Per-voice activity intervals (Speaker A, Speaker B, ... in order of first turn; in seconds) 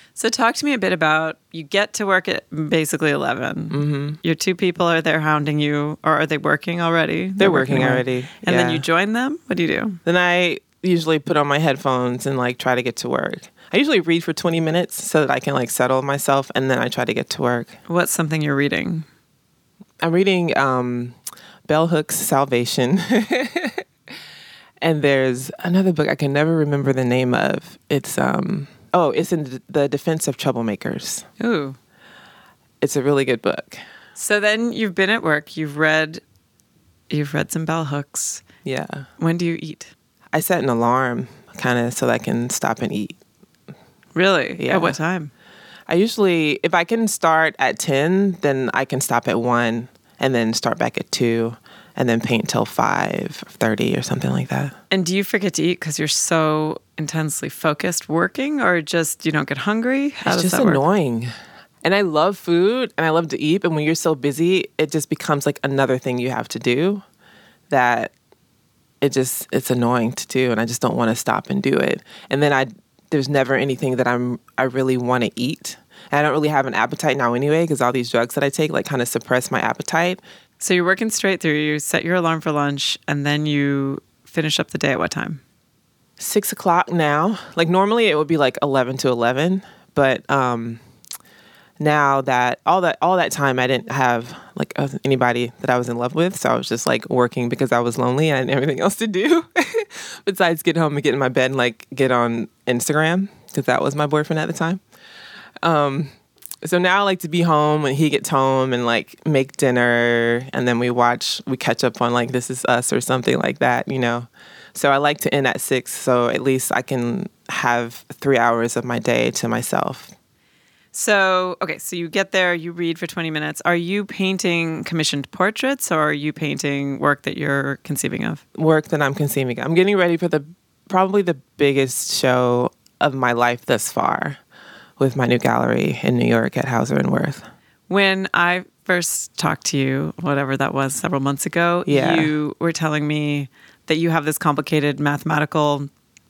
Speaker A: 0.2-10.0, 17.9-19.1, 31.4-31.8, 34.2-36.2, 37.1-38.4, 39.2-39.9, 44.1-45.3, 54.9-60.8, 80.6-85.4, 120.9-128.4, 137.9-145.9
Speaker B: 3.7-4.2, 7.4-8.8, 10.1-17.8, 20.0-21.2, 21.7-23.8, 24.8-31.2, 32.8-33.8, 38.6-39.1, 40.3-43.2, 44.6-45.0, 45.9-54.7, 60.2-61.3, 61.8-67.0, 67.7-68.1, 69.0-80.2, 86.2-90.8, 91.8-104.8, 105.6-120.2, 128.6-134.4, 135.0-137.5, 141.9-142.3